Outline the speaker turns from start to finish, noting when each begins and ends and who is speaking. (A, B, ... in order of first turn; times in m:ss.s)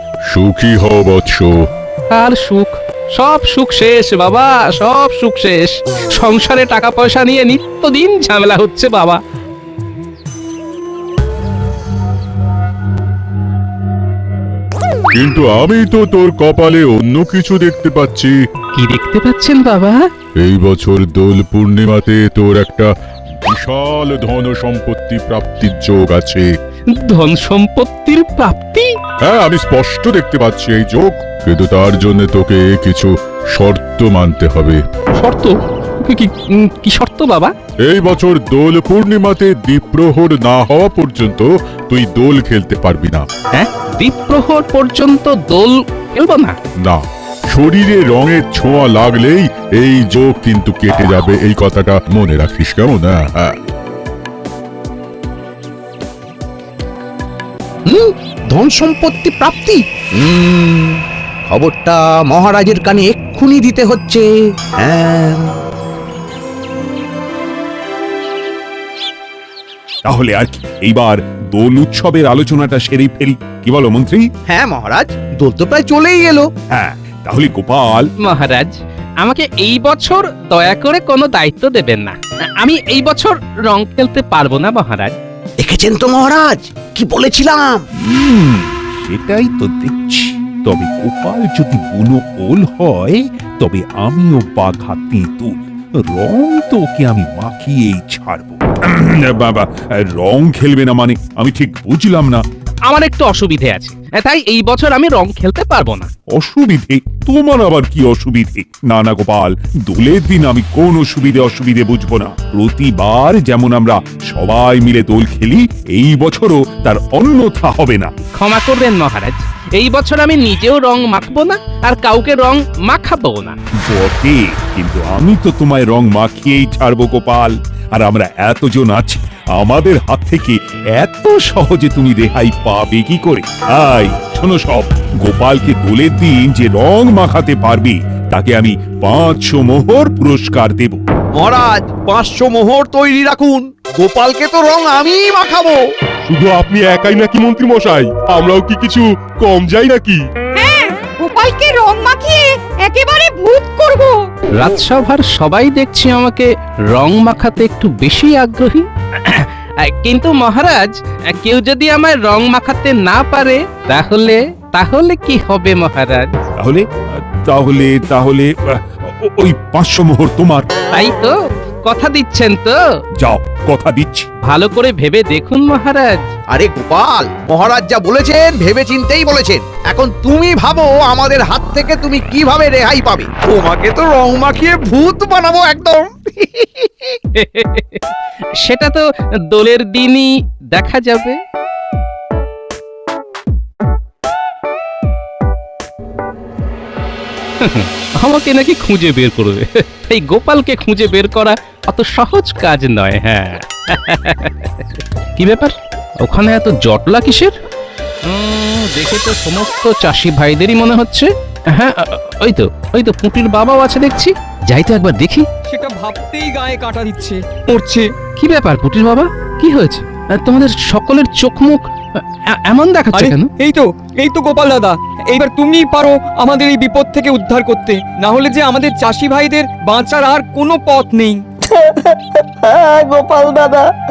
0:00.3-0:01.6 A
0:02.1-0:09.2 B
0:15.2-0:18.3 A
0:18.8-0:20.0 B
0:20.4-0:22.9 A
0:23.4-0:26.5 A
0:27.0-0:28.9 B
0:29.2-0:34.8 A
0:35.2-0:37.5 B
0:37.8-0:43.3 A
0:43.5-0:46.6 B
0:46.8-0:53.6 A
0:57.9-1:05.4 C
1:10.1-1:14.2 D
1:14.5-1:16.5 C
1:16.7-1:18.0 D
1:18.2-1:25.2 B
1:25.6-1:27.8 C
1:28.1-1:35.6 D
1:36.1-1:42.4 D
1:42.9-1:46.1 B
1:46.3-1:58.1 D
1:58.4-2:03.6 B
2:03.9-2:21.0 D
2:21.4-2:25.8 C
2:26.3-2:30.2 E
2:30.6-2:34.2 F
2:34.6-2:46.3 B
2:47.5-2:48.5 D
2:49.2-2:50.6 D
2:50.9-2:51.4 B
2:51.9-2:52.8 B
2:53.2-2:54.2 D
2:54.5-2:56.2 B
2:56.5-3:07.2 C
3:07.4-3:08.0 B
3:08.6-3:11.4 B
3:17.6-3:24.8 B
3:25.4-3:27.5 B
3:28.3-3:35.5 B
3:35.7-3:38.1 G
3:38.4-3:41.9 B
3:42.7-3:43.5 B
3:43.6-3:51.4 G
3:51.7-3:53.8 H